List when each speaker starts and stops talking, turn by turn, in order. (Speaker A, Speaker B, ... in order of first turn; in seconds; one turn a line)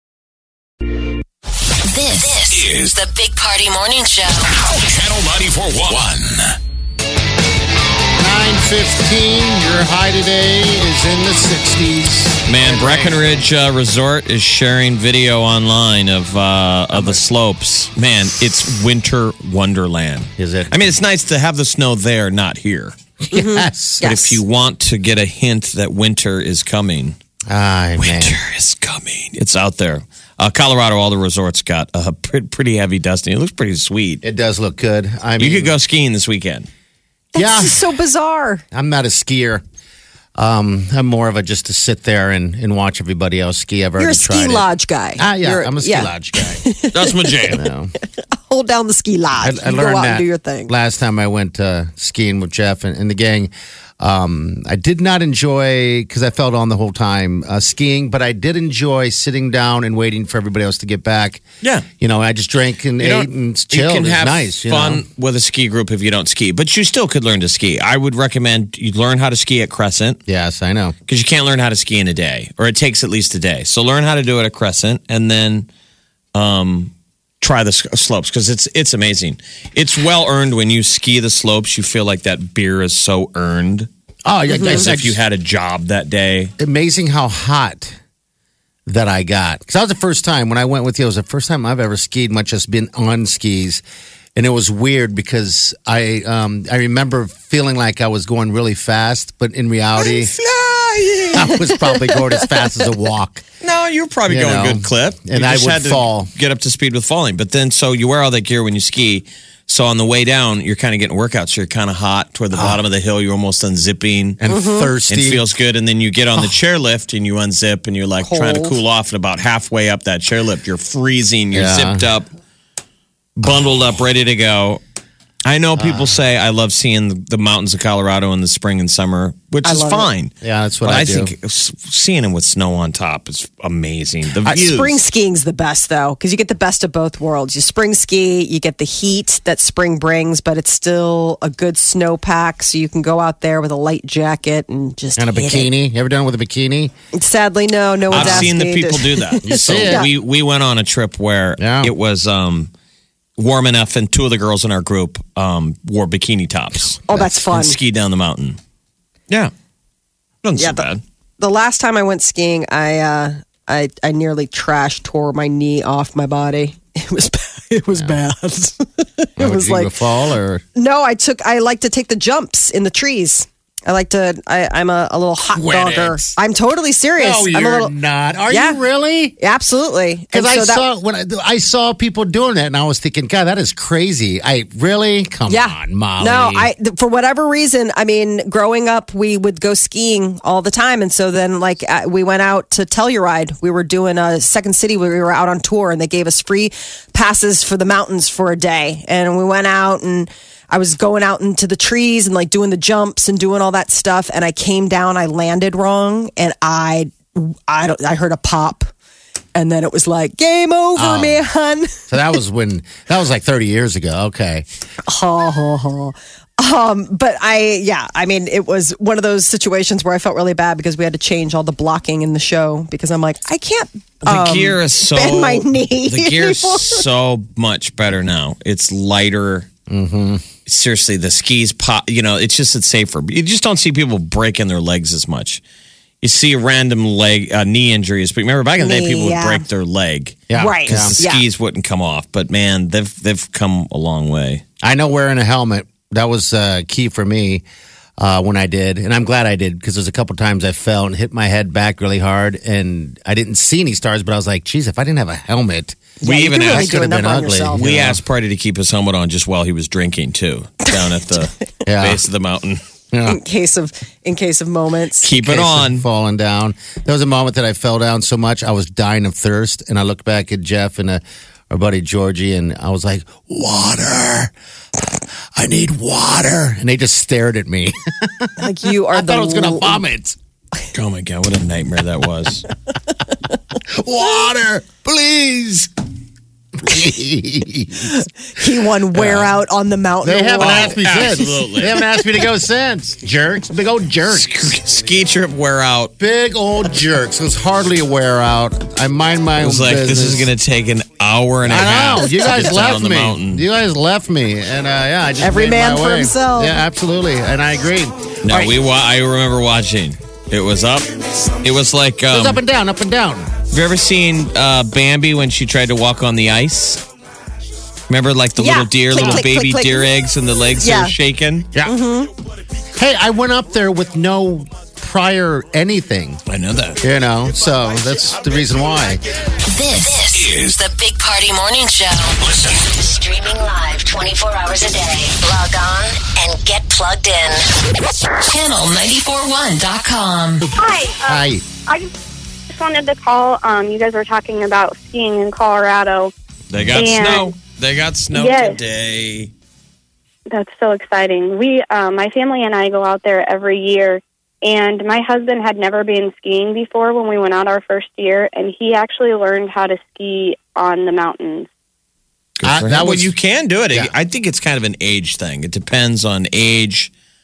Speaker A: 1.9-4.5
Speaker B: 2.1-3.0
Speaker B: 4.8-6.5
Speaker C: 8.2-13.4
Speaker D: 12.5-22.9
Speaker C: 16.9-17.2
Speaker C: 20.4-20.7
Speaker C: 23.2-24.1
Speaker E: 23.3-24.4
Speaker D: 24.0-27.2
Speaker C: 27.5-28.4
Speaker D: 28.0-34.2
Speaker C: 34.2-35.8
Speaker D: 35.4-36.7
Speaker E: 37.3-38.6
Speaker C: 37.3-37.9
Speaker C: 38.7-39.6
Speaker C: 40.4-46.6
Speaker E: 44.0-47.7
Speaker D: 46.9-47.6
Speaker C: 47.5-47.9
Speaker E: 48.3-50.7
Speaker C: 49.4-61.4
Speaker D: 61.6-61.9
Speaker C: 62.0-65.0
Speaker D: 63.0-70.2
Speaker C: 70.3-70.9
Speaker D: 71.1-75.7
Speaker D: 76.3-83.9
Speaker C: 84.2-85.2
Speaker E: 84.5-84.8
Speaker D: 84.6-86.5
Speaker C: 86.6-87.9
Speaker C: 88.9-93.8
Speaker C: 94.3-100.3
Speaker E: 100.0-102.8
Speaker C: 101.3-103.4
Speaker D: 103.6-114.4
Speaker C: 104.3-106.3
Speaker C: 112.5-112.8
Speaker C: 114.4-115.5
Speaker E: 114.5-114.9
Speaker D: 115.1-122.3
Speaker E: 118.2-118.8
Speaker C: 121.5-122.0
Speaker D: 123.4-124.8
Speaker D: 125.4-135.0
Speaker C: 125.8-126.2
Speaker E: 129.6-130.1
Speaker C: 130.4-131.3
Speaker E: 134.4-145.7
Speaker C: 145.2-146.9
Speaker E: 147.1-150.1
Speaker D: 148.1-152.7
Speaker C: 148.1-148.5
Speaker C: 149.4-150.1
Speaker C: 151.6-151.9
Speaker D: 153.4-158.6
Speaker E: 157.1-157.8
Speaker D: 160.4-161.0
Speaker E: 160.6-160.9
Speaker E: 161.4-170.0
Speaker C: 169.4-170.6
Speaker E: 170.8-177.9
Speaker C: 175.5-176.2
Speaker C: 177.2-179.4
Speaker E: 178.5-178.8
Speaker E: 179.4-180.9
Speaker C: 180.3-186.7
Speaker E: 185.5-208.9
Speaker E: 209.5-212.0
Speaker C: 210.9-211.4
Speaker C: 212.1-214.7
Speaker E: 215.1-227.0
Speaker D: 224.2-229.7
Speaker C: 229.9-230.4
Speaker D: 230.7-235.6
Speaker D: 236.2-244.6
Speaker E: 238.8-239.7
Speaker C: 240.5-241.2
Speaker E: 240.5-241.4
Speaker C: 244.8-247.6
Speaker C: 248.2-258.2
Speaker E: 256.2-257.9
Speaker D: 256.2-256.9
Speaker D: 257.7-262.8
Speaker C: 261.9-262.2
Speaker C: 263.1-263.4
Speaker E: 263.2-265.3
Speaker D: 265.2-266.0
Speaker C: 265.4-274.5
Speaker C: 275.6-278.5
Speaker E: 278.6-280.0
Speaker C: 279.1-280.4
Speaker D: 280.9-282.6
Speaker C: 284.0-285.9
Speaker C: 286.9-288.1
Speaker E: 288.1-291.0
Speaker C: 289.1-289.5
Speaker C: 290.2-294.6
Speaker D: 290.6-292.0
Speaker D: 294.3-296.1
Speaker C: 296.2-300.5
Speaker D: 299.6-303.6
Speaker C: 301.6-308.7
Speaker E: 305.4-306.8
Speaker D: 308.4-311.1
Speaker D: 311.6-312.6
Speaker C: 312.3-313.5
Speaker D: 313.7-317.0
Speaker D: 318.1-321.7
Speaker E: 318.6-320.1
Speaker E: 320.8-321.1
Speaker E: 321.8-322.3
Speaker C: 323.0-326.4
Speaker D: 326.5-327.0
Speaker C: 327.0-329.2
Speaker A: 329.6-337.7
Speaker B: 330.3-330.8
Speaker B: 332.4-332.8
Speaker A: 338.4-340.6
Speaker C: 340.6-341.6
Speaker F: 340.8-342.1
Speaker F: 342.7-346.3
Speaker D: 346.7-349.5
Speaker F: 346.9-347.5
Speaker F: 348.3-348.8
Speaker F: 350.5-361.7
Speaker D: 362.6-367.1
Speaker C: 362.6-363.3